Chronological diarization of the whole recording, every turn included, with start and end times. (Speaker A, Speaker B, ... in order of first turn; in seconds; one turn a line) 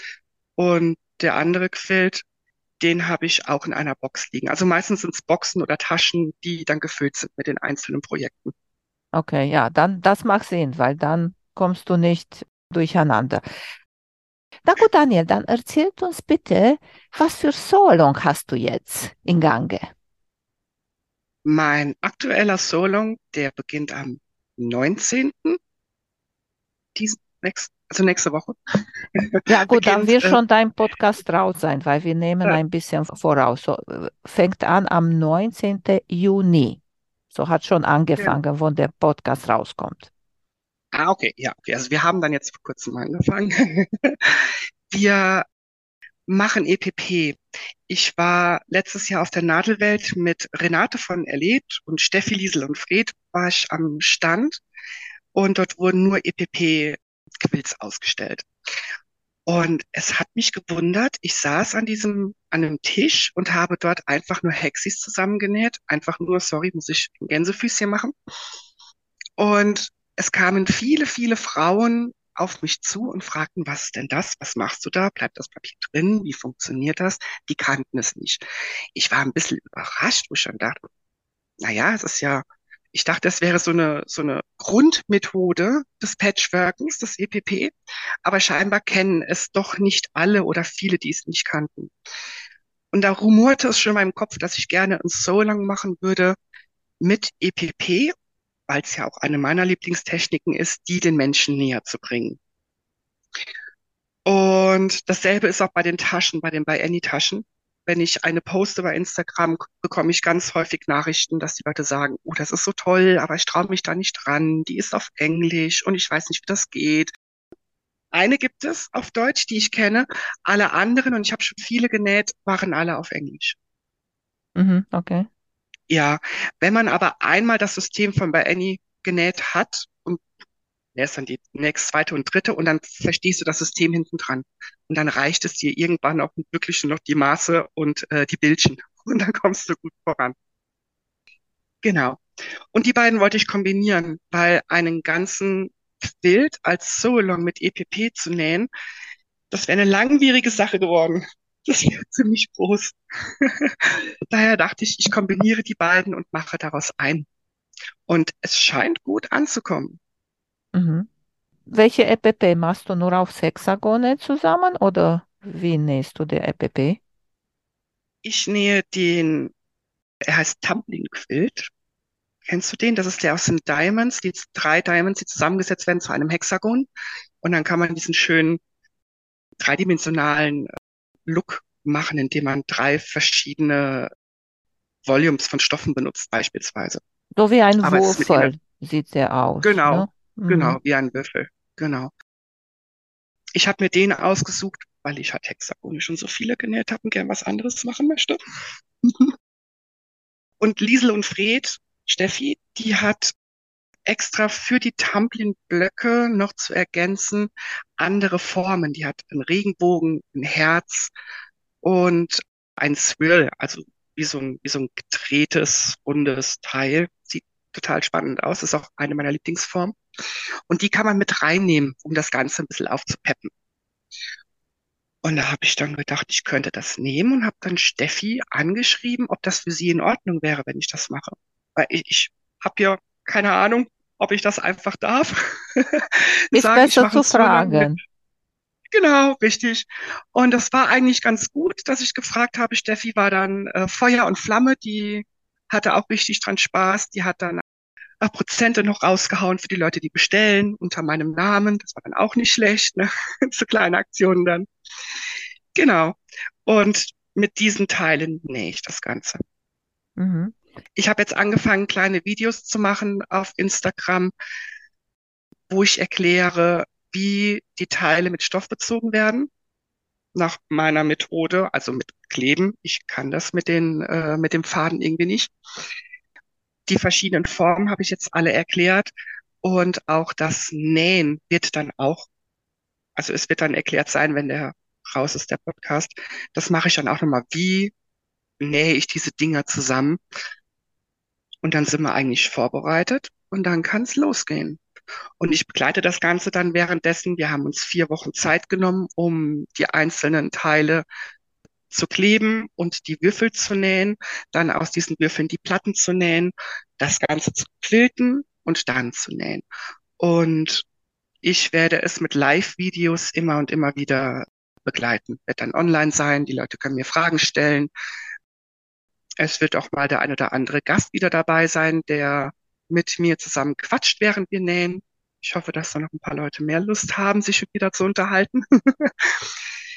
Speaker A: 0.6-2.2
Speaker A: 2.8-8.5
Speaker B: 9.1-13.4
Speaker B: 14.7-19.9
Speaker A: 21.4-25.6
Speaker A: 26.9-28.6
Speaker A: 29.2-30.4
Speaker B: 29.5-40.1
Speaker A: 40.9-45.5
Speaker A: 46.3-54.6
Speaker A: 55.3-58.5
Speaker A: 59.5-68.1
Speaker A: 69.4-78.4
Speaker A: 79.0-80.8
Speaker A: 81.6-87.7
Speaker A: 88.2-91.9
Speaker A: 92.9-96.4
Speaker A: 97.0-98.1
Speaker A: 98.7-102.4
Speaker A: 104.3-117.1
Speaker A: 118.1-123.6
Speaker B: 124.6-125.3
Speaker A: 125.9-130.2
Speaker A: 130.9-140.3
Speaker A: 141.8-142.2
Speaker A: 142.7-148.7
Speaker A: 149.5-157.3
Speaker A: 158.1-160.0
Speaker B: 160.7-161.1
Speaker B: 161.7-167.0
Speaker A: 168.2-169.5
Speaker A: 170.3-171.7
Speaker A: 172.5-176.9
Speaker A: 177.4-178.6
Speaker A: 179.6-180.7
Speaker A: 181.3-184.1
Speaker A: 185.1-187.0
Speaker B: 187.4-190.8
Speaker A: 187.8-188.5
Speaker A: 189.6-192.1
Speaker A: 193.6-198.4
Speaker A: 199.0-199.3
Speaker A: 200.6-203.3
Speaker A: 204.1-211.1
Speaker A: 211.8-220.0
Speaker A: 220.7-223.5
Speaker A: 225.2-237.9
Speaker B: 236.5-238.0
Speaker A: 238.9-247.6
Speaker A: 248.2-254.7
Speaker A: 255.8-259.4
Speaker B: 260.2-260.6
Speaker A: 261.0-264.3
Speaker A: 265.7-269.5
Speaker A: 270.4-275.5
Speaker A: 276.9-279.1
Speaker A: 279.6-282.3
Speaker A: 283.2-287.9
Speaker A: 288.6-290.2
Speaker A: 291.6-294.8
Speaker A: 295.4-301.1
Speaker A: 301.9-309.6
Speaker A: 310.2-310.9
Speaker A: 311.4-317.9
Speaker A: 319.4-329.5